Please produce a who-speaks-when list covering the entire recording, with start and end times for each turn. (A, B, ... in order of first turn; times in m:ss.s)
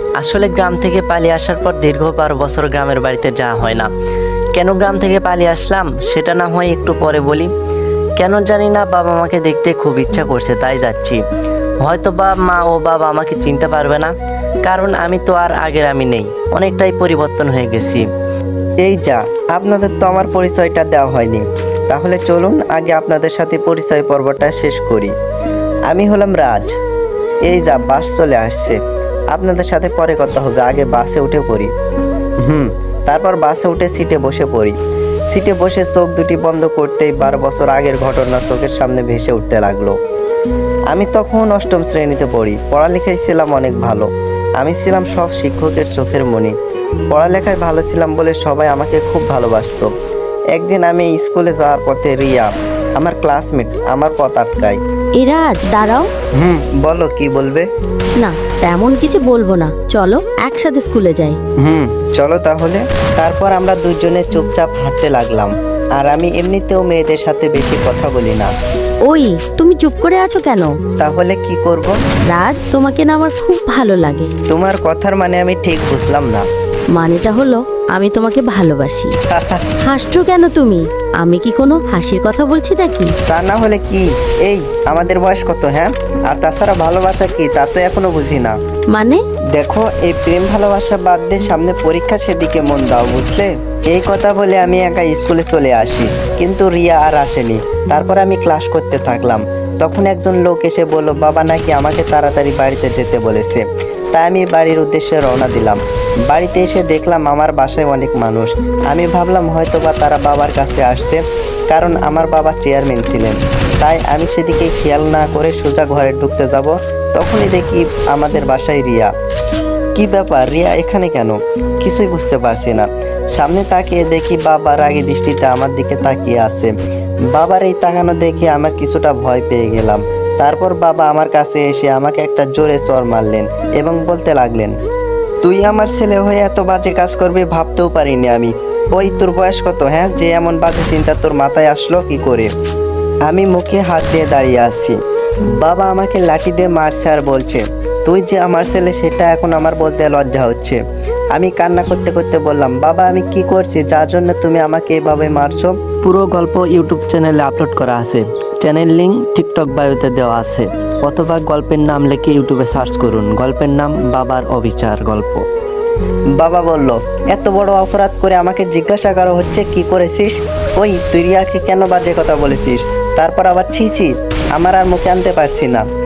0:00.2-0:03.9 A
0:00.2-0:03.4 B
0:04.6-0:07.5 A
0:04.6-0:05.3 B
0:06.6-0:07.1 B
0:08.2-0:11.1 A
0:09.2-0:11.1 B
0:11.8-0:14.1 A
0:12.8-0:13.8 B
0:14.7-0:18.0 A
0:15.6-0:16.5 B
0:18.8-0:25.1 B
0:25.9-0:26.7 B
0:27.5-0:28.8 B
0:29.3-0:31.7 B
0:32.4-0:34.8 B
0:35.3-0:40.0 B
0:40.9-0:44.1 B
0:44.6-0:46.5 B
0:47.1-0:49.9 B
0:50.6-0:54.8 B
0:55.2-0:56.1 C
0:56.4-0:57.7 B
0:58.2-1:01.4 C
1:01.6-1:08.5 B
1:09.1-1:10.7 C
1:11.0-1:12.0 B
1:12.3-1:14.3 C
1:14.5-1:16.5 B
1:17.0-1:19.1 C
1:19.3-1:19.6 B
1:19.9-1:23.1 C
1:23.3-1:28.6 B
1:28.9-1:29.2 C
1:29.6-1:59.1 B
2:00.0-2:06.7 B
2:07.3-2:14.8 B
2:15.4-2:22.5 B
2:23.3-2:25.0 B
2:25.6-2:30.8 B
2:31.3-2:45.4 B
2:36.1-2:38.2 A
2:38.7-2:40.6 A
2:41.1-2:45.3 A
2:46.4-2:55.9 B